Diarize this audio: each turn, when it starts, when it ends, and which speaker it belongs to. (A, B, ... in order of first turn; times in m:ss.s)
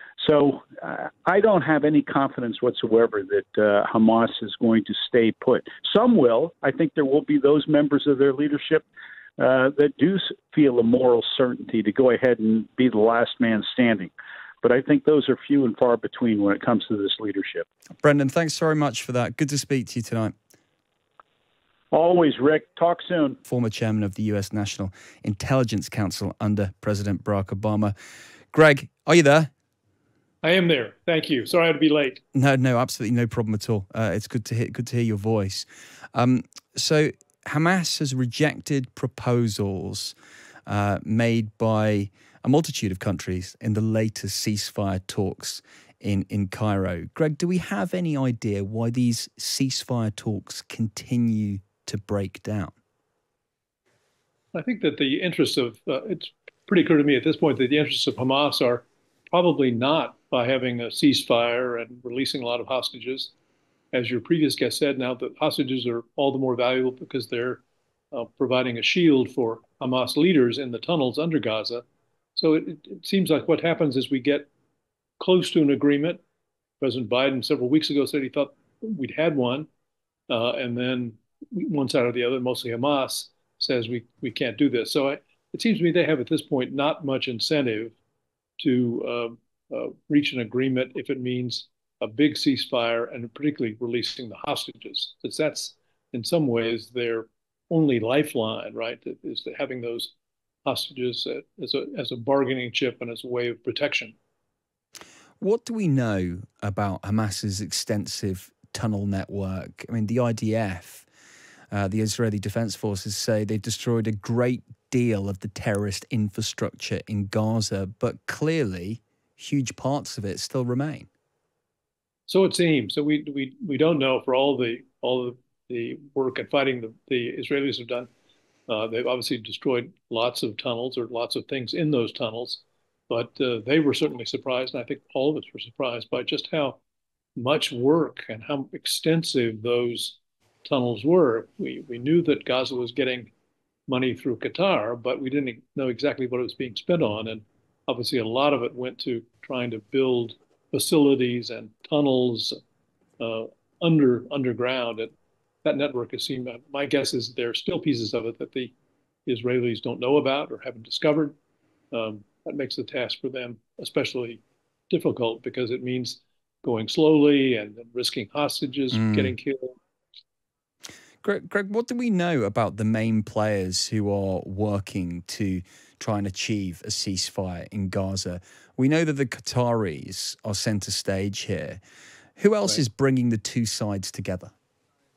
0:00.2-0:08.8 A
0:09.4-0:14.1 A
0:14.6-0:17.6 A
0:18.0-0:20.3 B
0:21.9-0:23.4 A
0:23.5-0:27.9 B
0:28.5-0:29.5 B
0:30.4-0:32.2 C
0:32.3-0:40.1 B
0:40.7-0:52.7 B
0:54.5-1:03.3 C
1:03.9-1:11.8 C
1:12.4-1:14.5 C
1:15.2-1:16.2 C
1:16.8-1:19.7 C
1:20.3-1:27.9 C
1:28.6-1:40.1 C
1:40.6-1:44.1 C
1:45.4-1:51.1 B
1:51.7-2:01.1 B
2:02.3-2:08.1 C
2:08.7-2:16.8 C
2:17.4-2:23.3 C
2:23.9-2:32.6 C
2:33.2-2:35.1 C
2:35.6-2:38.7 C
2:39.2-2:41.4 C
2:41.9-2:49.7 C
2:48.9-2:49.3 B
2:51.2-3:01.8 B
3:02.4-3:04.5 B